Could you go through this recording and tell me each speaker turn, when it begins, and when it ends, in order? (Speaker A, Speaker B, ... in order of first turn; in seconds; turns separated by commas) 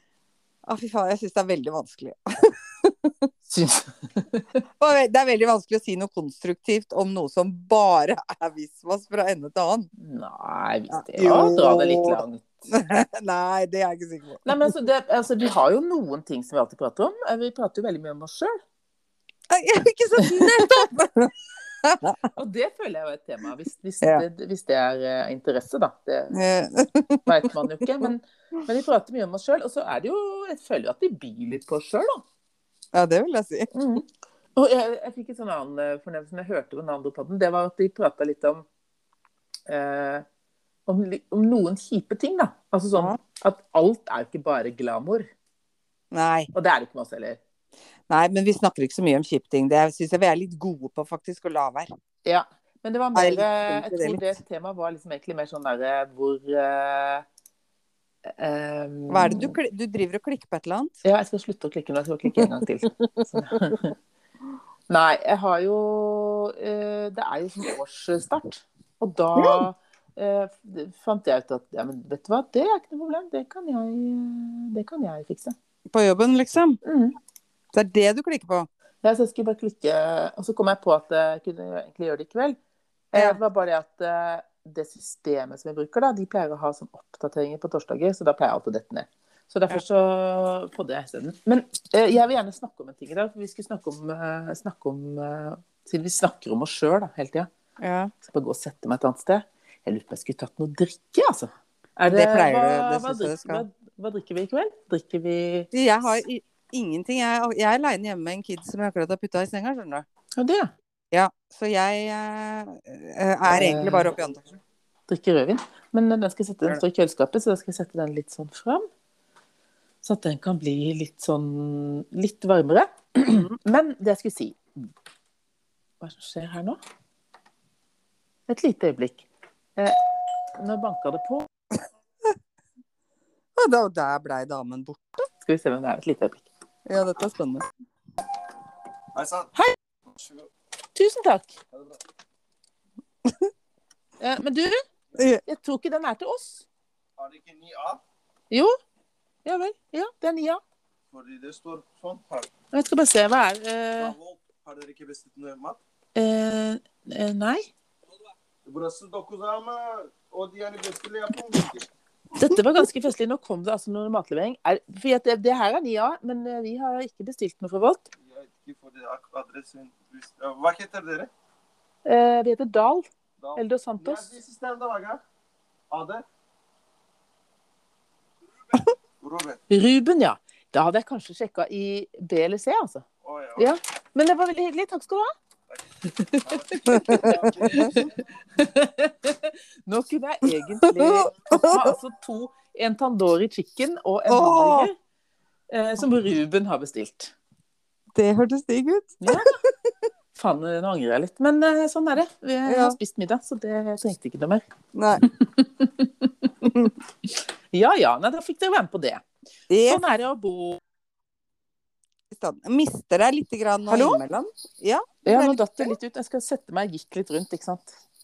Speaker A: 0.7-3.3, Speaker B: 3.5-4.6, Speaker A: 4.8-9.9, Speaker B: 10.0-12.6, Speaker A: 10.9-14.4, Speaker B: 14.4-18.6, Speaker A: 19.5-22.2, Speaker B: 20.2-20.5, Speaker B: 22.3-26.4, Speaker A: 26.3-27.3, Speaker B: 27.2-32.2, Speaker A: 32.9-33.7, Speaker B: 33.7-34.0, Speaker B: 34.5-38.6, Speaker B: 39.7-40.2, Speaker B: 40.9-45.3, Speaker A: 46.1-46.5, Speaker B: 46.5-47.4, Speaker A: 48.1-51.9, Speaker B: 52.2-57.2, Speaker A: 53.1-54.3, Speaker B: 58.3-59.5, Speaker A: 59.1-61.0, Speaker B: 61.0-63.9, Speaker A: 63.4-63.7, Speaker B: 64.9-75.5, Speaker A: 69.3-69.6, Speaker A: 75.9-76.8, Speaker B: 76.8-77.2, Speaker A: 77.7-78.7, Speaker B: 79.0-82.6, Speaker B: 83.1-97.5, Speaker A: 83.1-83.4, Speaker A: 97.8-98.1, Speaker B: 98.3-105.7, Speaker A: 102.1-103.6, Speaker A: 105.7-110.0, Speaker B: 110.4-110.7, Speaker A: 111.1-114.5, Speaker B: 113.5-114.1, Speaker B: 115.1-118.9, Speaker B: 120.0-124.9, Speaker B: 126.0-126.8, Speaker B: 128.5-130.0, Speaker B: 130.6-131.5, Speaker A: 133.5-135.2, Speaker B: 135.4-136.4, Speaker A: 136.9-137.6, Speaker C: 139.1-139.5, Speaker C: 140.1-140.5, Speaker B: 140.9-141.5, Speaker B: 144.2-144.8, Speaker A: 145.2-145.4, Speaker B: 145.5-146.7, Speaker C: 147.2-148.0, Speaker B: 148.5-148.8, Speaker B: 149.4-150.6, Speaker C: 151.1-152.5, Speaker B: 152.7-154.2, Speaker C: 154.0-155.8, Speaker B: 156.1-157.7, Speaker C: 158.7-161.9, Speaker B: 162.3-168.1, Speaker A: 162.5-162.8, Speaker C: 168.3-171.3, Speaker B: 172.0-174.3, Speaker C: 173.4-175.2, Speaker C: 175.9-176.2, Speaker C: 179.2-179.6, Speaker B: 179.7-183.0, Speaker C: 183.2-183.7, Speaker B: 183.6-185.3, Speaker B: 186.0-194.9, Speaker C: 186.3-188.1, Speaker A: 186.9-188.0, Speaker A: 190.8-191.9, Speaker A: 194.3-194.9, Speaker B: 195.7-197.3, Speaker A: 198.1-199.4, Speaker B: 199.2-199.5, Speaker B: 200.3-204.6, Speaker A: 202.7-203.0, Speaker A: 204.9-205.2, Speaker B: 205.2-206.5, Speaker A: 206.6-206.9, Speaker B: 207.2-209.2, Speaker A: 209.7-210.0, Speaker B: 209.8-210.8, Speaker A: 212.3-215.9, Speaker B: 213.9-214.2, Speaker B: 215.2-218.0